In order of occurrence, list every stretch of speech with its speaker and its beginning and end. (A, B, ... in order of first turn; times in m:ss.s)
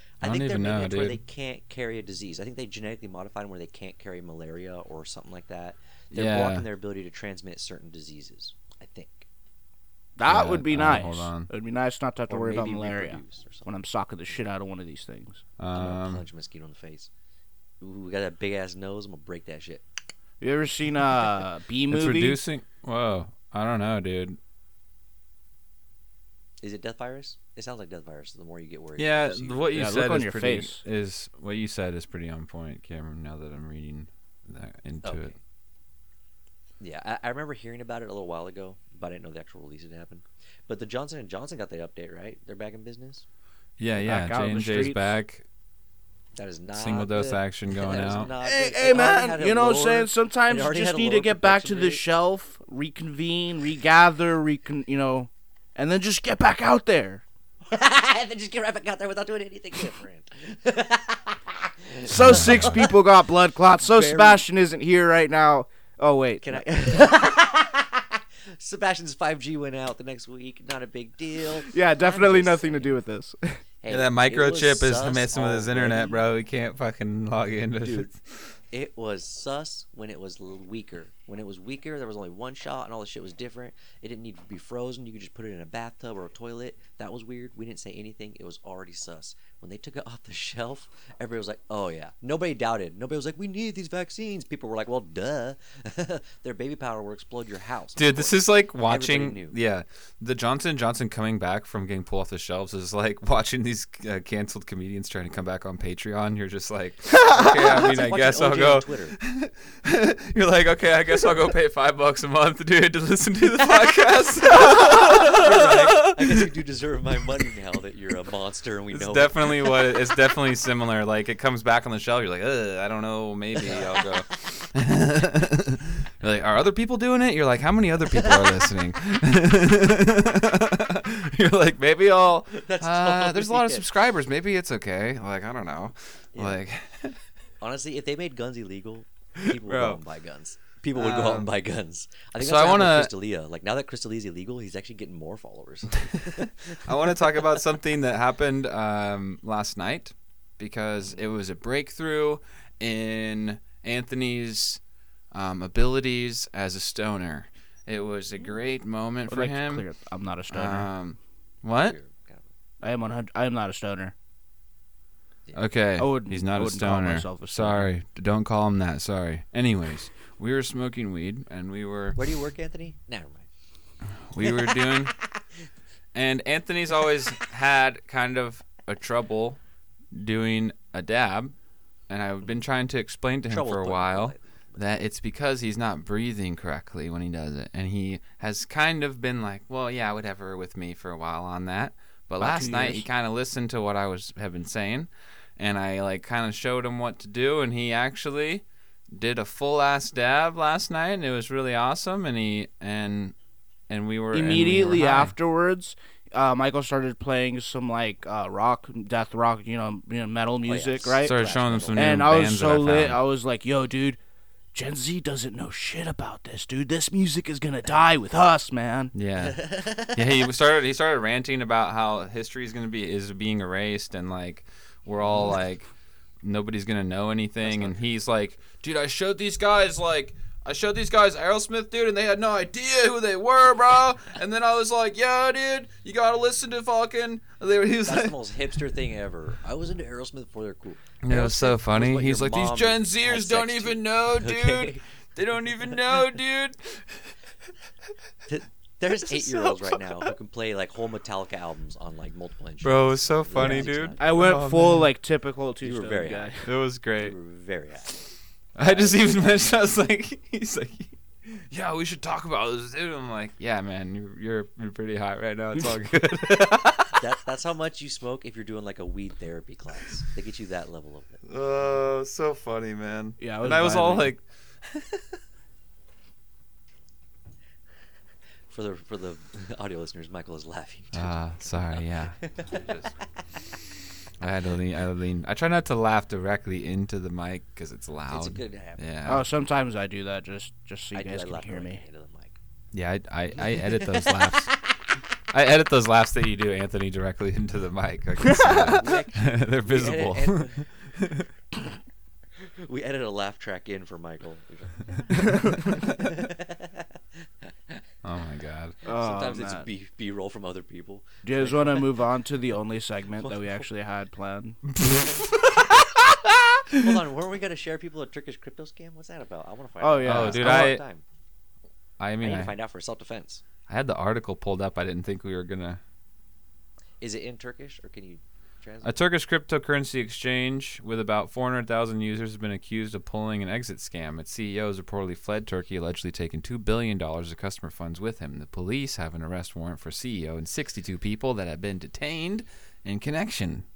0:00.2-0:01.2 A
0:00.2-0:09.3 B
0:06.1-0:06.6 A
0:10.2-0:15.4 C
0:10.3-0:11.5 A
0:12.3-0:13.7 B
0:15.6-0:16.2 A
0:15.7-0:17.1 B
0:17.8-0:19.8 B
0:20.4-0:22.4 C
0:21.9-0:24.4 A
0:26.6-0:29.8 B
0:29.0-0:35.3 A
0:29.7-0:30.8 C
0:35.0-0:35.4 B
0:36.8-0:43.2 B
0:43.8-0:45.4 A
0:44.0-0:45.2 C
0:46.4-0:52.0 B
0:46.7-0:48.3 A
0:48.4-0:57.2 C
0:57.7-1:03.0 B
1:02.1-1:07.0 C
1:03.8-1:04.4 B
1:06.4-1:12.9 B
1:11.7-1:13.6 C
1:13.8-1:16.2 B
1:13.9-1:18.5 A
1:17.8-1:18.1 B
1:18.7-1:39.6 B
1:38.0-1:56.4 A
1:47.2-1:49.2 B
1:54.8-1:59.9 B
1:58.9-2:17.2 A
2:03.6-2:04.4 B
2:08.1-2:08.5 B
2:12.5-2:13.9 B
2:16.3-2:16.6 B
2:17.6-2:27.5 B
2:19.4-2:20.0 A
2:21.0-2:21.5 A
2:22.4-2:23.1 A
2:26.2-2:34.8 A
2:35.3-2:39.9 A
2:39.3-2:40.9 C
2:40.5-2:42.0 A
2:41.8-2:42.5 B
2:42.8-2:44.1 C
2:45.6-2:52.2 A
2:46.0-2:47.9 C
2:52.2-2:53.5 B
2:54.3-2:55.2 A
2:54.4-2:55.1 B
2:56.1-2:59.6 A
3:00.1-3:01.6 A
3:02.1-3:23.3 A
3:03.5-3:04.9 B
3:12.4-3:13.1 C
3:23.9-3:25.4 A
3:24.3-3:31.4 C
3:30.6-3:32.2 B
3:31.2-3:33.2 A
3:31.9-3:34.2 C
3:34.7-3:39.1 C
3:39.1-3:45.9 A
3:39.4-3:40.4 B
3:45.2-3:45.5 B
3:46.4-3:58.3 A
3:47.6-3:48.0 B
3:58.0-4:05.0 B
4:01.2-4:07.3 A
4:08.5-4:14.4 B
4:09.3-4:10.3 A
4:12.8-4:15.1 A
4:13.6-4:16.7 C
4:15.8-4:16.6 B
4:16.6-4:17.4 A
4:17.2-4:19.7 B
4:18.8-4:27.2 A
4:27.1-4:31.4 B
4:31.5-4:34.4 A
4:33.4-4:34.3 C
4:38.7-4:42.9 B
4:41.1-4:43.2 A
4:44.4-4:49.5 A
4:48.3-4:49.4 B
4:49.3-4:52.0 C
4:51.1-4:52.6 B
4:52.9-4:54.8 A
4:53.6-4:54.9 B
4:55.5-5:01.5 A
4:58.4-4:59.0 C
4:58.7-5:00.9 B
5:02.6-5:08.0 B
5:05.4-5:05.8 C
5:08.2-5:09.0 A
5:09.0-5:09.9 C
5:09.1-5:12.1 B
5:11.4-5:14.8 C
5:14.9-5:17.1 A
5:17.0-5:21.2 B
5:20.0-5:21.0 C
5:20.2-5:21.0 A
5:22.2-5:22.8 A
5:22.4-5:23.6 B
5:23.9-5:26.0 A
5:27.2-5:29.2 B
5:29.0-5:43.8 A